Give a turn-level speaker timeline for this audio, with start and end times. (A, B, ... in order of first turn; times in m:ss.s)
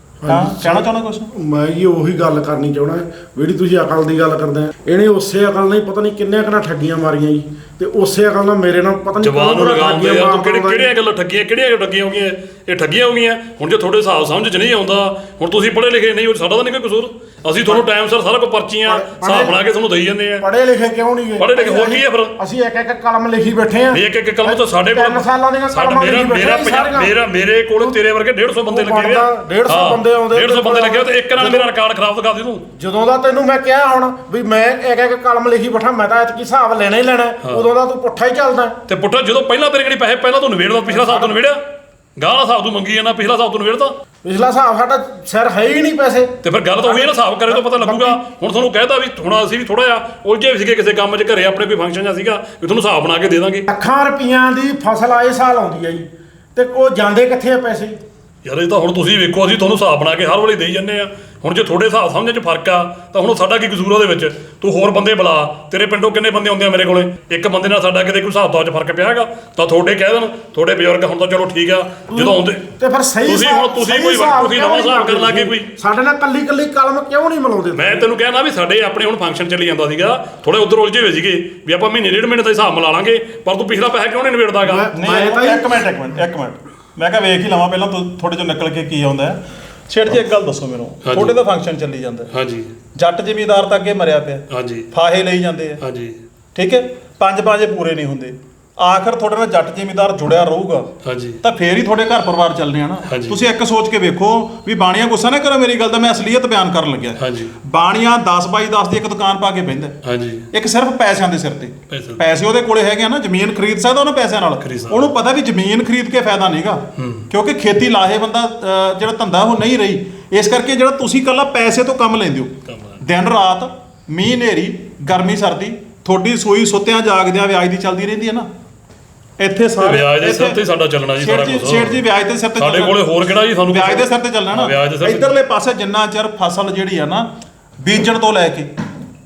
0:00.2-0:10.9 A
0:00.3-0:01.3 B
0:09.2-0:20.4 C
0:18.9-0:19.6 A
0:20.4-0:27.1 A
0:21.4-0:22.3 C
0:23.9-0:32.6 C
0:28.7-0:31.7 A
0:32.8-0:38.8 A
0:38.9-0:41.6 C
0:40.9-0:41.3 A
0:42.2-0:43.9 C
0:44.2-0:48.2 A
0:46.4-0:53.7 C
0:53.7-0:58.0 A
0:58.4-1:12.6 C
1:12.1-1:18.1 A
1:13.2-1:15.7 C
1:17.7-1:24.9 C
1:24.6-1:25.8 A
1:24.9-1:32.3 B
1:31.0-1:31.3 C
1:32.3-1:32.7 C
1:32.9-1:35.8 B
1:34.5-1:34.9 C
1:35.8-1:36.2 C
1:36.5-1:40.9 B
1:41.0-1:41.4 C
1:41.4-1:50.0 B
1:43.1-1:43.4 C
1:47.2-1:47.5 C
1:50.0-1:50.5 C
1:50.5-2:08.5 B
1:51.9-1:52.2 C
1:54.6-1:55.1 C
1:57.0-1:57.3 C
2:02.7-2:03.0 C
2:09.4-2:10.6 B
2:09.8-2:12.0 C
2:11.2-2:13.0 B
2:12.6-2:15.3 C
2:13.7-2:17.3 B
2:17.8-2:18.7 B